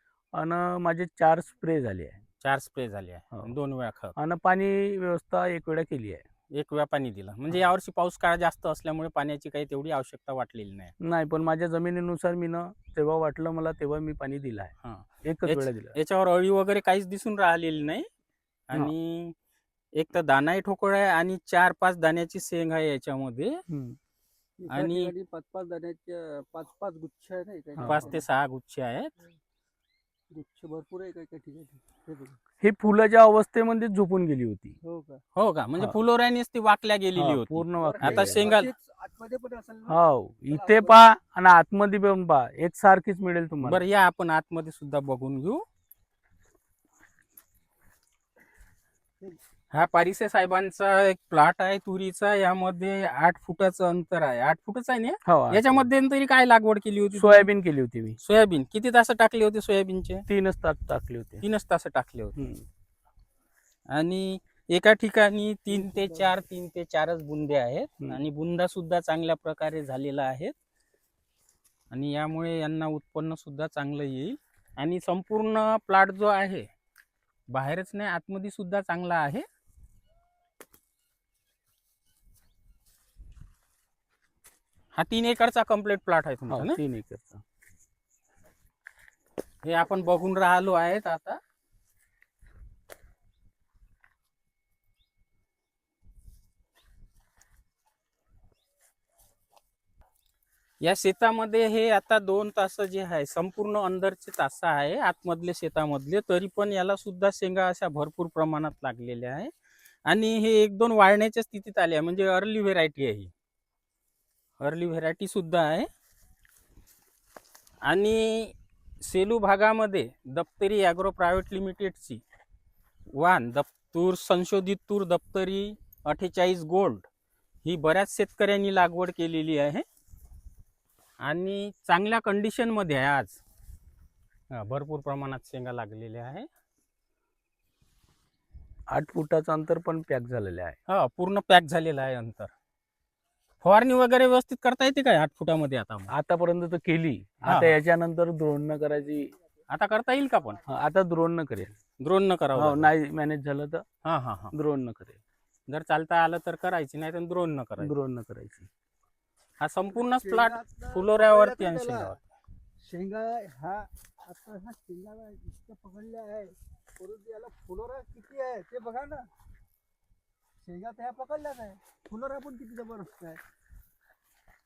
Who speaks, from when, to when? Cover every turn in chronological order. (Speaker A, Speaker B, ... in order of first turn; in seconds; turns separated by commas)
Speaker A: 0.3-2.2, Speaker B: 2.4-4.2, Speaker A: 4.2-6.2, Speaker B: 6.5-10.9, Speaker A: 11.0-14.7, Speaker B: 14.8-18.1, Speaker A: 15.2-16.0, Speaker B: 18.7-19.4, Speaker B: 19.9-23.6, Speaker A: 23.7-24.0, Speaker C: 24.6-28.2, Speaker B: 24.7-25.1, Speaker A: 27.8-28.1, Speaker B: 27.9-29.1, Speaker C: 30.3-32.4, Speaker A: 32.6-34.8, Speaker C: 34.8-35.2, Speaker B: 35.4-38.7, Speaker A: 37.1-38.6, Speaker C: 37.8-41.1, Speaker A: 39.9-43.9, Speaker B: 43.6-45.6, Speaker B: 49.7-57.5, Speaker A: 55.3-55.9, Speaker A: 57.1-58.2, Speaker B: 58.2-60.2, Speaker A: 60.3-61.4, Speaker B: 61.4-62.5, Speaker A: 62.4-62.6, Speaker B: 63.9-70.5, Speaker C: 65.7-66.3, Speaker B: 71.9-76.7, Speaker B: 77.5-79.5, Speaker B: 85.0-86.8, Speaker A: 86.5-87.4, Speaker B: 89.6-91.4, Speaker B: 100.8-109.5, Speaker B: 110.1-113.3, Speaker B: 114.6-115.9, Speaker B: 117.8-122.2, Speaker B: 123.1-127.1, Speaker B: 127.6-129.8, Speaker B: 131.2-133.4, Speaker B: 134.5-136.5, Speaker A: 138.9-140.8, Speaker B: 140.9-142.5, Speaker B: 143.6-146.1, Speaker A: 146.1-149.3, Speaker B: 147.5-147.8, Speaker B: 149.7-150.6, Speaker A: 150.7-151.8, Speaker B: 152.0-152.9, Speaker A: 152.5-153.8, Speaker B: 154.0-154.5, Speaker A: 154.5-155.2, Speaker B: 155.7-157.9, Speaker A: 157.8-158.7, Speaker B: 159.6-162.2, Speaker C: 159.9-162.2, Speaker C: 162.8-169.3, Speaker C: 170.6-173.4